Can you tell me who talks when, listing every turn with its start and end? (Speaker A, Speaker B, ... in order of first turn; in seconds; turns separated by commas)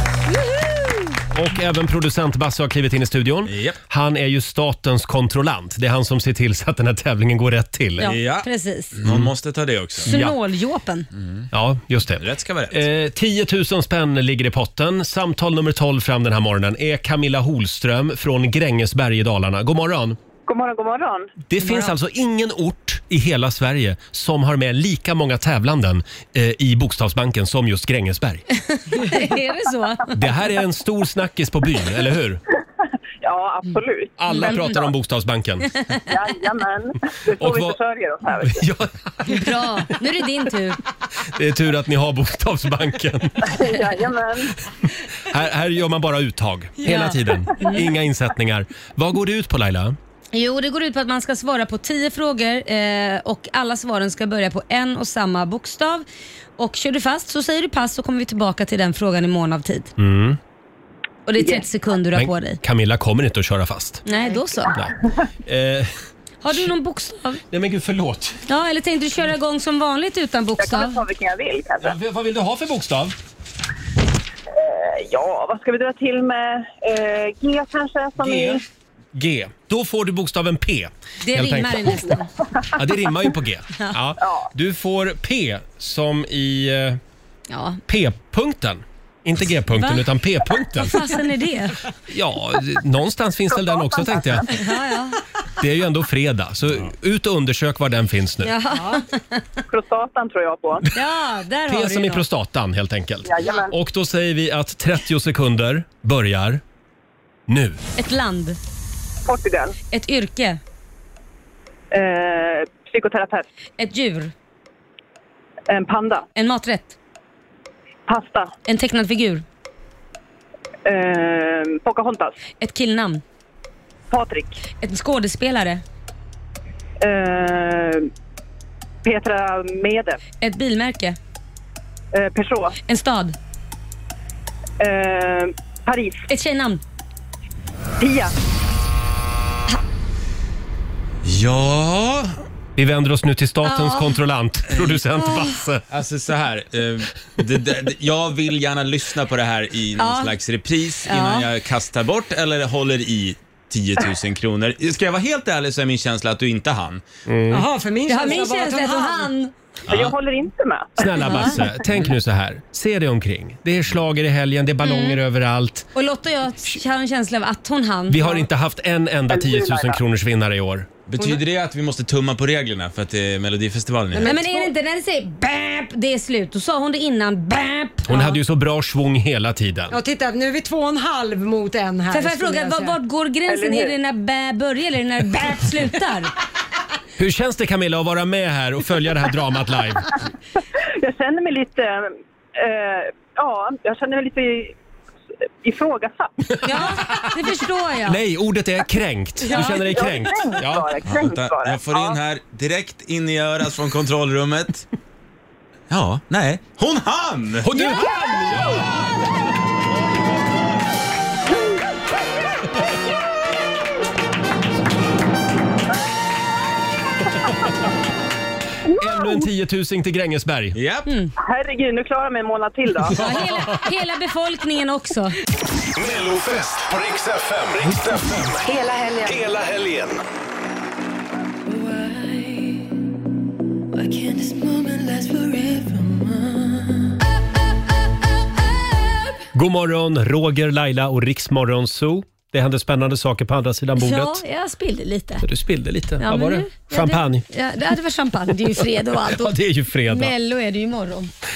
Speaker A: 0.3-1.0, Speaker B: 1.3-8.1, Speaker C: 3.5-3.8, Speaker A: 8.0-9.0, Speaker C: 8.0-10.1, Speaker A: 10.0-11.1, Speaker B: 10.1-10.4, Speaker C: 11.2-11.5, Speaker B: 11.5-20.2, Speaker C: 12.2-12.8, Speaker D: 20.5-21.3, Speaker B: 21.5-28.4, Speaker A: 21.6-21.9, Speaker A: 28.6-30.1, Speaker B: 30.1-32.4, Speaker D: 33.2-34.1, Speaker B: 34.2-35.8, Speaker A: 34.3-34.6, Speaker D: 36.1-38.6, Speaker B: 37.4-37.8, Speaker B: 38.4-39.5, Speaker A: 39.3-40.8, Speaker B: 41.3-43.7, Speaker D: 43.4-44.5, Speaker B: 45.3-50.0, Speaker A: 46.9-47.9, Speaker A: 50.3-56.0, Speaker A: 56.6-59.9, Speaker B: 60.0-60.4, Speaker A: 61.3-62.6, Speaker B: 62.1-64.0, Speaker A: 64.1-64.8, Speaker B: 65.5-65.9, Speaker A: 66.4-67.4, Speaker B: 67.5-68.4, Speaker A: 68.5-71.0, Speaker D: 70.6-72.0, Speaker B: 71.8-73.2, Speaker D: 74.6-78.6, Speaker B: 78.2-78.6, Speaker B: 79.1-82.2, Speaker A: 81.2-82.3, Speaker B: 82.7-87.0, Speaker A: 87.5-87.8, Speaker B: 87.9-91.1, Speaker A: 89.8-90.1, Speaker A: 90.8-91.8, Speaker B: 92.1-94.6, Speaker D: 93.5-94.4, Speaker A: 94.5-95.2, Speaker B: 95.6-98.5, Speaker A: 98.4-99.4, Speaker D: 99.7-100.8, Speaker A: 100.9-102.2, Speaker B: 101.7-106.6, Speaker D: 103.2-103.7, Speaker B: 107.5-107.8, Speaker A: 108.0-108.6, Speaker D: 109.3-109.7, Speaker A: 109.9-110.6, Speaker D: 111.9-113.5, Speaker A: 113.8-114.3, Speaker D: 115.7-116.2, Speaker A: 116.3-117.0, Speaker D: 118.1-118.5, Speaker A: 118.7-119.4, Speaker D: 120.8-122.4, Speaker A: 122.6-123.2, Speaker D: 124.1-124.6, Speaker A: 124.8-125.8, Speaker D: 127.0-128.1, Speaker D: 129.0-130.2, Speaker A: 130.4-131.2, Speaker D: 132.1-132.8, Speaker A: 132.8-133.4, Speaker D: 134.8-136.2, Speaker A: 136.3-136.8, Speaker D: 138.0-138.3, Speaker C: 141.2-142.3, Speaker B: 142.8-145.8, Speaker A: 143.6-144.2, Speaker A: 145.2-145.5, Speaker C: 145.9-157.0, Speaker A: 150.0-150.4, Speaker A: 151.1-151.5, Speaker B: 157.3-157.7, Speaker E: 157.5-159.3, Speaker A: 158.1-159.5, Speaker C: 159.9-160.2, Speaker D: 159.9-161.3, Speaker B: 161.0-165.9, Speaker A: 161.2-161.6, Speaker A: 164.8-165.2, Speaker A: 165.9-168.4, Speaker B: 168.1-170.9, Speaker D: 169.3-170.0, Speaker C: 171.1-174.4, Speaker E: 174.1-174.7, Speaker A: 174.2-178.3, Speaker B: 178.1-180.0, Speaker E: 179.9-183.0, Speaker A: 182.1-186.3, Speaker D: 183.5-183.9, Speaker B: 187.2-190.2, Speaker D: 191.0-194.8, Speaker D: 195.6-196.3, Speaker A: 196.6-198.2, Speaker B: 198.1-201.0, Speaker D: 199.4-202.2, Speaker C: 201.1-204.9, Speaker C: 205.9-207.7, Speaker B: 207.6-208.9, Speaker B: 218.9-220.8, Speaker C: 220.7-221.1, Speaker A: 221.1-221.3, Speaker D: 221.4-223.2, Speaker A: 223.1-225.3, Speaker F: 226.0-228.7, Speaker F: 229.2-230.2, Speaker G: 231.7-232.9, Speaker G: 233.9-237.1, Speaker B: 239.5-244.4, Speaker A: 244.0-245.5, Speaker B: 245.4-247.4, Speaker A: 246.2-249.6, Speaker B: 249.3-250.3, Speaker A: 250.1-251.3